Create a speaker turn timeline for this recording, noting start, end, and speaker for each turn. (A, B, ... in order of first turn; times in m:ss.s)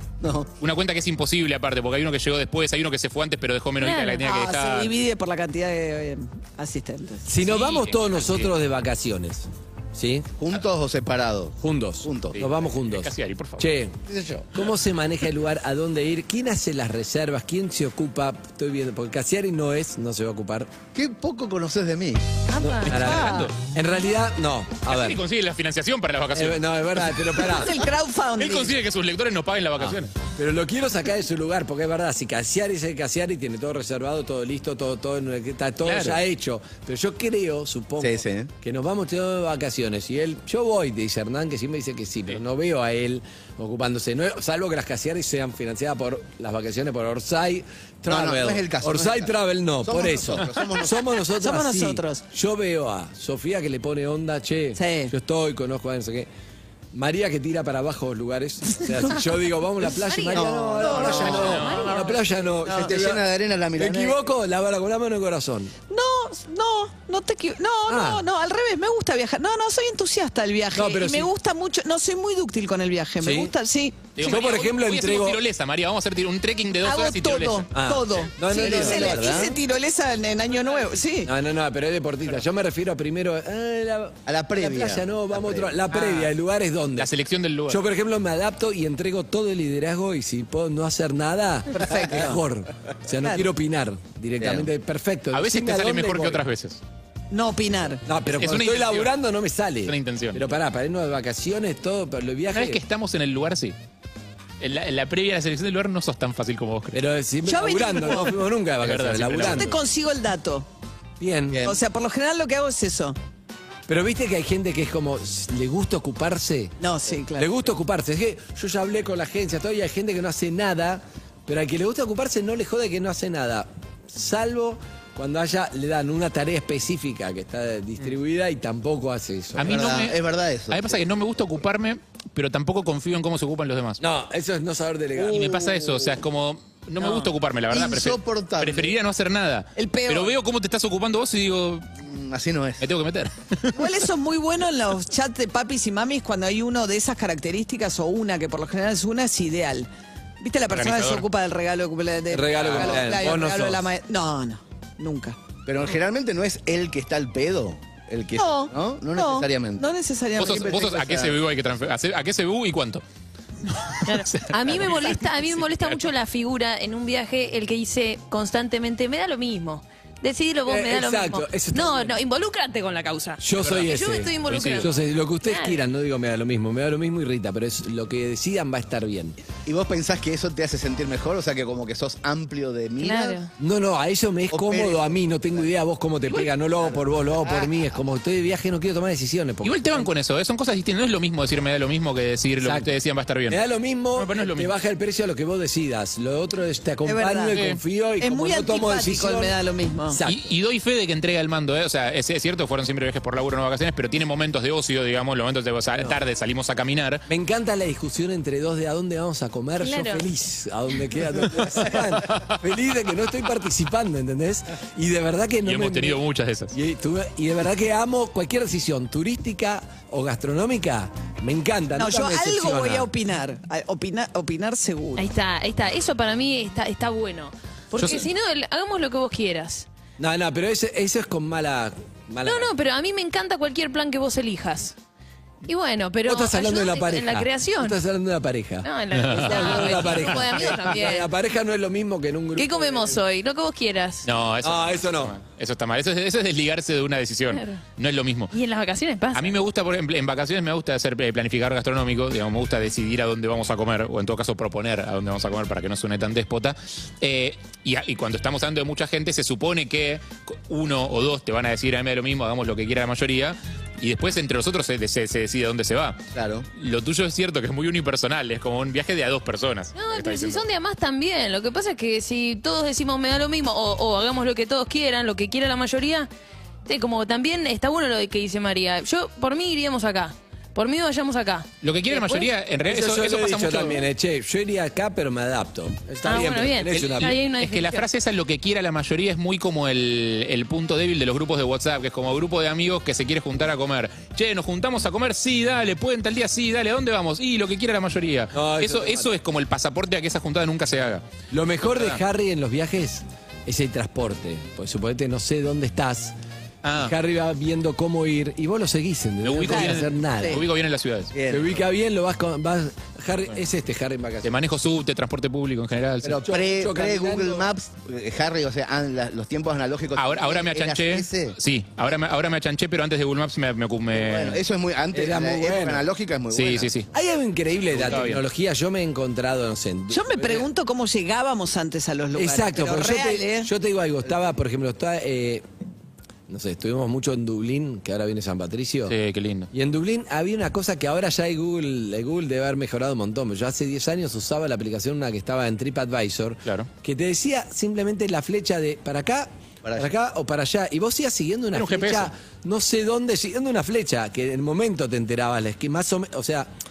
0:00.2-0:00.5 A
0:00.6-0:04.9 B
0:03.8-0:04.2 C
0:04.2-0:07.3 D
0:07.2-0:10.3 E
0:07.4-0:08.5 B
0:10.4-0:12.4 A
0:11.6-0:14.0 E
0:12.3-0:13.7 B
0:14.1-0:14.5 A
0:14.5-0:20.7 E
0:20.9-0:22.2 A
0:22.5-0:23.1 C
0:22.6-0:25.2 E
0:22.8-0:23.6 B
0:22.9-0:23.4 D
0:24.9-0:27.2 B
0:26.3-0:27.8 E
0:27.4-0:28.7 D
0:28.4-0:30.1 B
0:29.8-0:56.3 E
0:35.8-0:36.2 B
0:38.0-0:38.5 A
0:48.1-0:49.3 A
0:49.8-0:51.0 A
0:51.4-0:52.2 D
0:54.8-0:55.1 D
0:56.9-1:03.2 E
1:00.0-1:02.2 C
1:00.3-1:01.6 A
1:00.8-1:01.7 D
1:01.0-1:02.0 B
1:02.6-1:04.2 A
1:03.8-1:05.7 E
1:05.9-1:14.2 D
1:07.9-1:08.2 E
1:10.7-1:11.3 E
1:13.2-1:13.5 E
1:14.2-1:17.7 B
1:14.2-1:15.4 E
1:16.8-1:21.3 D
1:17.7-1:19.5 E
1:18.5-1:19.6 A
1:21.2-1:27.1 E
1:24.3-1:25.7 A
1:27.0-1:27.8 B
1:27.7-1:36.4 E
1:31.7-1:32.4 D
1:35.3-1:36.8 B
1:37.3-1:38.0 D
1:38.0-1:42.8 E
1:38.3-1:39.1 B
1:39.8-1:40.4 B
1:42.5-1:43.8 B
1:44.6-1:47.0 B
1:46.9-1:49.7 E
1:47.4-1:48.4 D
1:48.8-1:49.7 B
1:49.4-1:50.7 D
1:51.2-1:51.7 E
1:51.5-1:51.8 A
1:51.6-1:53.2 D
1:53.9-1:56.8 E
1:56.8-1:57.5 D
1:57.4-2:09.8 E
2:09.6-2:14.0 B
2:09.6-2:11.0 A
2:14.0-2:16.1 E
2:15.2-2:21.9 B
2:17.7-2:18.9 A
2:19.8-2:20.3 D
2:22.0-2:22.8 A
2:22.8-2:23.8 B
2:23.7-2:29.9 D
2:30.4-2:35.4 D
2:30.7-2:31.2 B
2:32.3-2:33.9 E
2:32.6-2:33.0 B
2:35.6-2:41.4 A
2:38.4-2:40.7 D
2:40.4-2:43.0 B
2:43.7-2:46.1 B
2:44.0-2:54.9 C
2:50.6-2:52.2 E
2:53.4-2:59.4 E
2:53.6-2:53.9 B
2:54.4-2:54.9 B
2:55.4-2:55.8 C
2:59.6-3:03.4 A
3:03.0-3:03.5 C
3:03.6-3:10.1 E
3:04.5-3:05.2 A
3:06.8-3:07.7 A
3:09.6-3:13.6 B
3:12.6-3:12.9 E
3:13.5-3:19.5 E
3:14.2-3:14.7 B
3:17.0-3:17.6 D
3:17.5-3:17.8 B
3:18.2-3:20.2 D
3:20.1-3:20.5 E
3:20.2-3:27.2 B
3:27.3-3:36.2 E
3:29.8-3:30.2 C
3:32.3-3:32.5 B
3:35.6-3:36.7 B
3:36.7-3:43.1 E
3:42.0-3:45.3 D
3:45.2-3:49.9 C
3:48.0-3:48.2 B
3:50.2-3:52.7 E
3:52.4-3:54.9 C
3:55.6-3:58.0 C
3:56.2-4:03.2 E
3:58.8-4:01.3 C
3:59.1-4:00.8 B
4:02.6-4:04.3 C
4:04.2-4:08.5 B
4:04.6-4:05.3 E
4:07.5-4:07.8 C
4:08.5-4:09.6 C
4:09.3-4:26.2 B
4:26.3-4:26.7 A
4:26.8-4:30.6 B
4:29.9-4:36.3 C
4:36.8-4:42.5 C
4:41.8-4:44.0 B
4:42.8-4:47.4 E
4:46.2-4:48.1 C
4:46.9-5:01.2 B
4:58.5-4:59.3 E
5:01.5-5:06.3 E
5:01.8-5:02.2 B
5:06.8-5:07.1 B
5:07.0-5:10.6 E
5:09.4-5:11.3 B
5:09.7-5:10.6 D
5:11.3-5:11.8 A
5:11.5-5:14.5 E
5:14.4-5:16.4 B
5:16.2-5:21.6 A
5:16.4-5:17.7 E
5:20.2-5:24.6 B
5:24.1-5:26.9 A
5:25.1-5:26.0 E
5:26.5-5:27.1 B
5:27.1-5:30.7 E
5:27.9-5:28.4 B
5:30.1-5:33.7 D
5:32.3-5:35.6 E
5:36.5-5:39.2 E
5:39.1-5:39.7 B
5:39.7-5:56.7 E
5:49.8-5:50.1 A
5:51.7-5:52.3 B